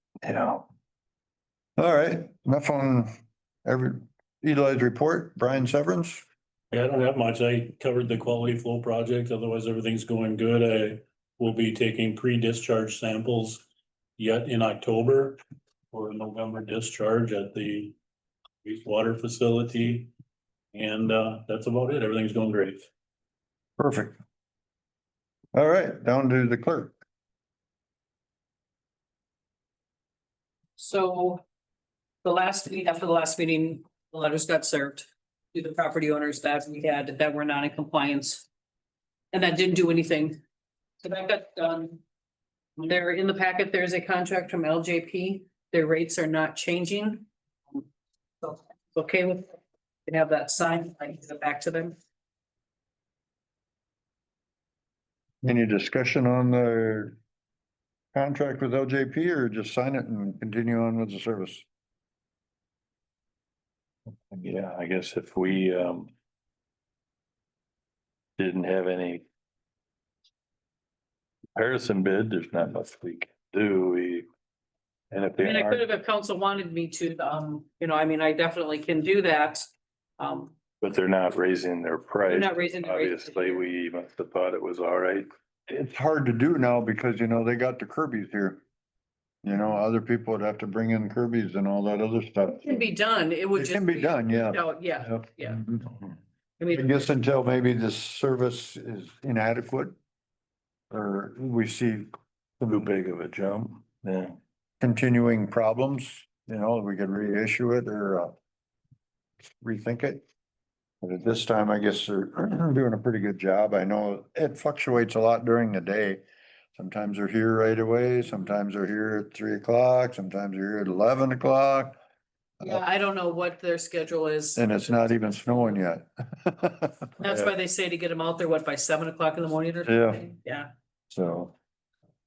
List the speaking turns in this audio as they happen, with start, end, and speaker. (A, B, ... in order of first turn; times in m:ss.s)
0:00.2-0:00.6 A
0:01.8-0:03.1 B
0:03.6-0:06.2 B
0:06.7-0:13.6 C
0:14.2-0:15.4 C
0:15.9-0:17.9 C
0:18.6-0:20.1 C
0:20.8-0:22.9 C
0:23.8-0:24.2 B
0:25.5-0:27.0 B
0:30.8-0:31.4 D
0:32.2-0:38.4 D
0:39.3-0:40.4 D
0:41.0-0:42.0 D
0:42.8-0:47.8 D
0:48.4-0:51.9 D
0:55.4-0:57.2 B
0:58.1-1:01.6 B
1:04.3-1:06.1 A
1:08.4-1:09.2 A
1:11.6-1:14.2 A
1:15.1-1:15.8 A
1:15.4-1:20.5 D
1:20.8-1:25.3 A
1:22.3-1:23.6 D
1:25.7-1:28.6 B
1:29.4-1:32.9 B
1:32.6-1:35.6 D
1:33.5-1:35.9 B
1:36.6-1:37.0 D
1:36.7-1:40.0 B
1:40.9-1:42.1 B
1:42.6-1:44.4 A
1:44.8-1:48.3 B
1:49.6-1:50.2 B
1:51.0-1:56.2 B
1:56.7-2:02.0 B
2:02.6-2:05.8 D
2:04.6-2:07.1 B
2:07.2-2:10.7 D
2:09.8-2:10.2 B
2:11.1-2:11.5 B